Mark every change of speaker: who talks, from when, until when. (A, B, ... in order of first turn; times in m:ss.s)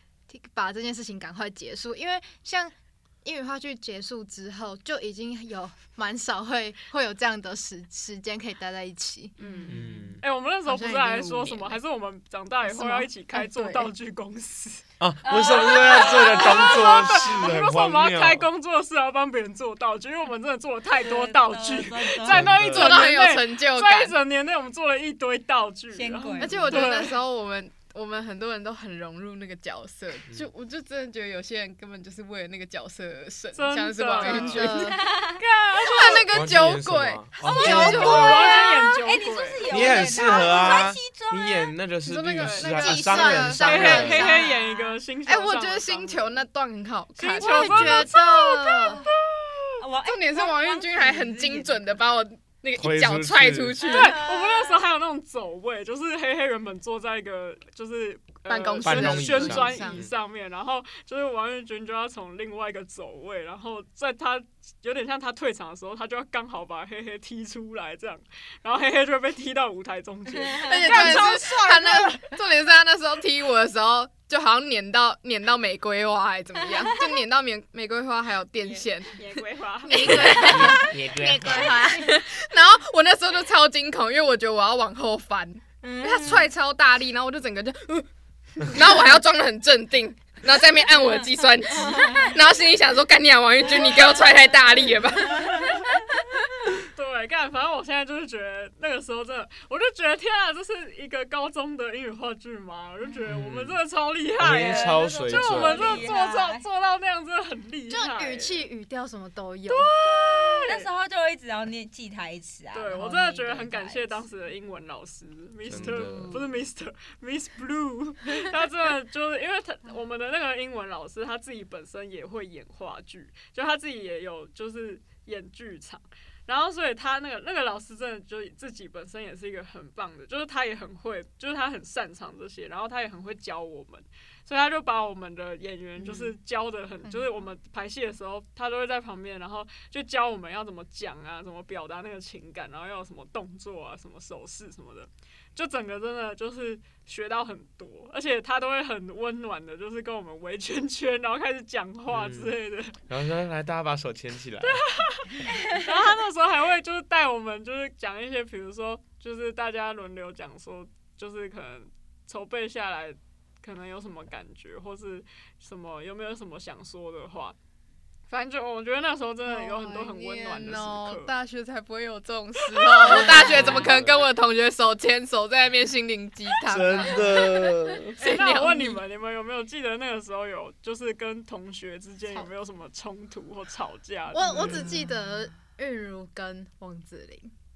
0:00.3-0:09.4 A
0:09.4-0:10.2 B
0:09.7-0:10.2 C
0:10.2-0:27.2 D
0:10.7-0:11.7 A
0:12.9-0:13.9 B
0:15.0-0:18.5 C
0:15.2-0:17.4 B
0:21.0-0:22.6 B
0:22.2-0:23.1 C
0:22.6-0:24.2 E
0:25.9-0:26.9 B
0:26.4-0:35.1 E
0:33.5-0:34.7 D
0:34.2-0:35.0 A
0:34.7-0:35.4 B
0:35.4-0:36.3 D
0:35.7-0:38.8 E
0:36.3-0:38.2 C
0:37.4-0:41.7 B
0:37.6-0:40.0 D
0:39.6-0:44.4 C
0:40.1-0:40.9 E
0:42.0-0:44.6 E
0:42.4-0:42.7 D
0:42.6-0:44.6 A
0:43.6-0:46.4 D
0:45.3-0:48.2 E
0:47.2-0:49.8 D
0:47.4-0:49.0 A
0:48.7-0:49.0 E
0:49.8-0:51.8 B
0:50.0-0:54.2 E
0:52.8-0:53.8 C
0:53.8-1:11.3 D
0:53.8-0:54.8 B
0:58.5-1:00.1 E
0:58.8-1:00.1 C
1:10.4-1:11.2 B
1:10.6-1:28.1 E
1:10.9-1:12.1 A
1:18.6-1:20.8 D
1:19.9-1:22.1 A
1:20.8-1:21.7 C
1:21.5-1:21.8 B
1:25.8-1:26.5 B
1:28.6-1:35.9 E
1:31.8-1:32.4 B
1:35.4-1:35.9 B
1:36.9-1:48.6 D
1:43.3-1:43.8 C
1:44.4-1:46.1 C
1:44.5-1:46.6 B
1:47.9-1:49.9 A
1:49.7-1:50.9 D
1:50.0-1:54.2 B
1:52.7-2:33.0 D
1:55.7-1:56.4 C
1:55.7-1:56.4 B
2:32.1-2:32.6 C
2:33.1-2:34.8 C
2:34.6-2:47.6 D
2:35.5-2:35.9 B
2:48.3-2:51.3 D
2:49.5-2:59.0 E
2:52.8-2:53.4 D
2:53.0-2:53.9 B
2:53.4-2:54.3 C
2:56.7-2:58.2 C
2:58.2-3:04.9 D
3:04.3-3:07.5 A